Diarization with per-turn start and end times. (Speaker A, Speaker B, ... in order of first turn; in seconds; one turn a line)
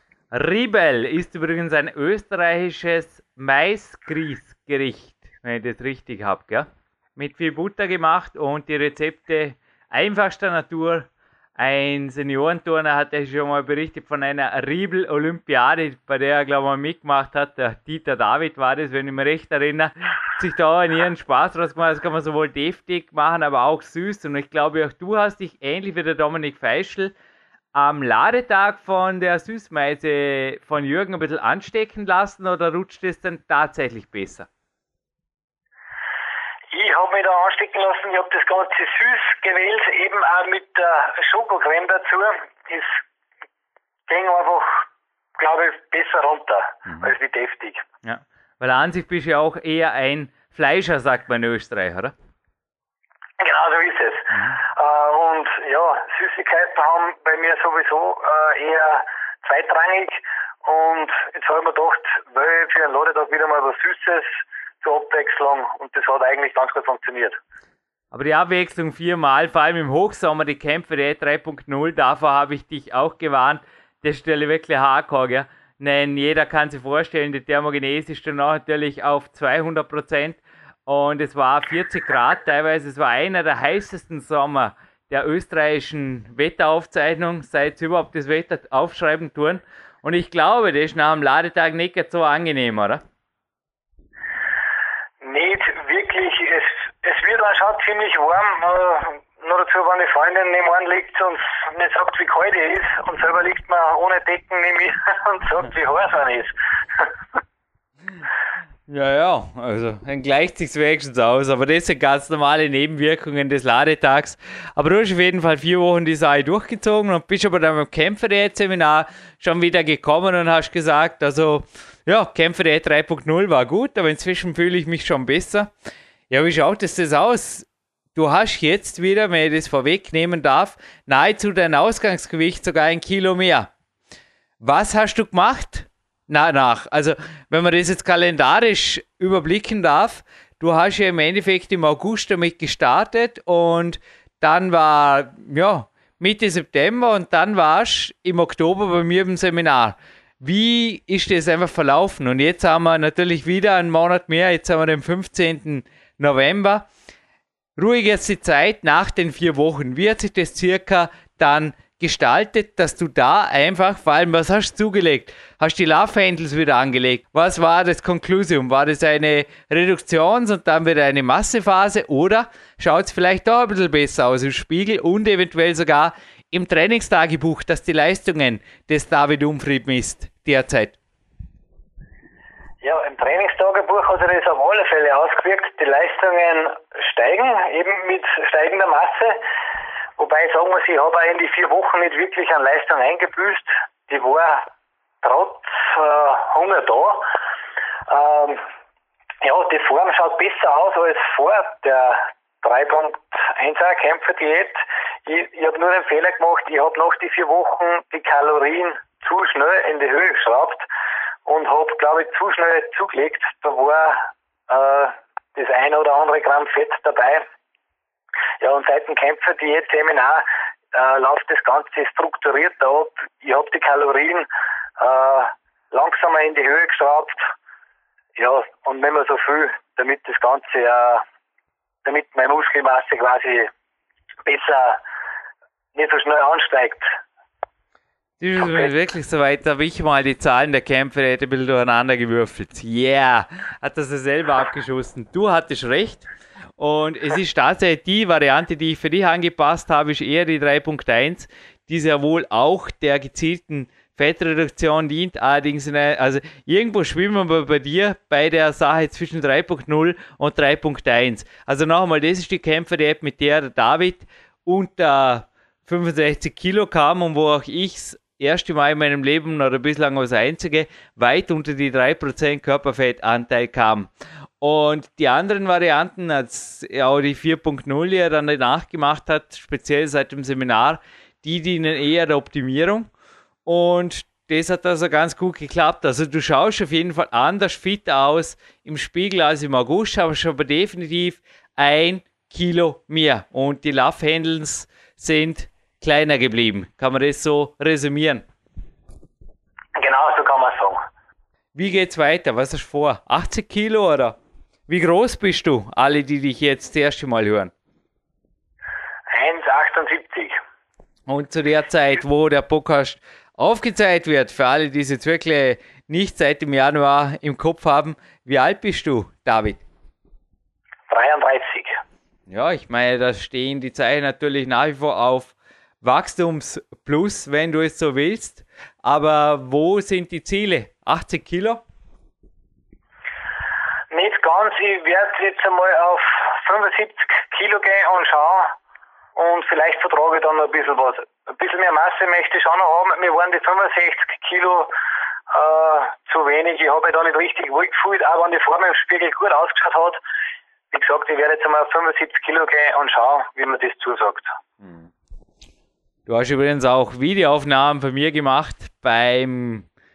Speaker A: 0.3-27.1
Speaker A: 27.7-34.5
Speaker B: 36.7-43.0
Speaker B: 44.1-44.8
Speaker B: 45.4-47.8
Speaker A: 48.0-52.1
Speaker B: 53.4-67.4
Speaker A: 68.1-93.0
Speaker B: 95.2-107.1
Speaker A: 108.9-125.7
Speaker A: 126.3-133.7
Speaker A: 134.6-156.9
Speaker A: 157.8-181.0
Speaker B: 182.8-189.4
Speaker B: 190.2-194.7
Speaker B: 195.2-197.3
Speaker B: 198.1-198.6
Speaker B: 199.4-210.8
Speaker B: 211.4-217.4
Speaker B: 218.6-224.5
Speaker B: 225.0-227.4
Speaker B: 228.3-231.2
Speaker B: 232.0-233.7
Speaker B: 234.4-235.0
Speaker B: 235.9-237.1
Speaker A: 238.4-246.3
Speaker A: 246.8-274.1
Speaker A: 274.6-283.1
Speaker A: 283.6-298.4
Speaker B: 300.0-301.0
Speaker A: 301.7-304.4
Speaker A: 304.9-307.7
Speaker B: 309.3-310.6
Speaker A: 311.3-319.8
Speaker B: 321.1-322.0
Speaker A: 322.5-331.8
Speaker B: 334.1-338.7
Speaker B: 339.4-344.9
Speaker B: 345.5-350.2
Speaker B: 350.9-354.5
Speaker A: 356.3-359.9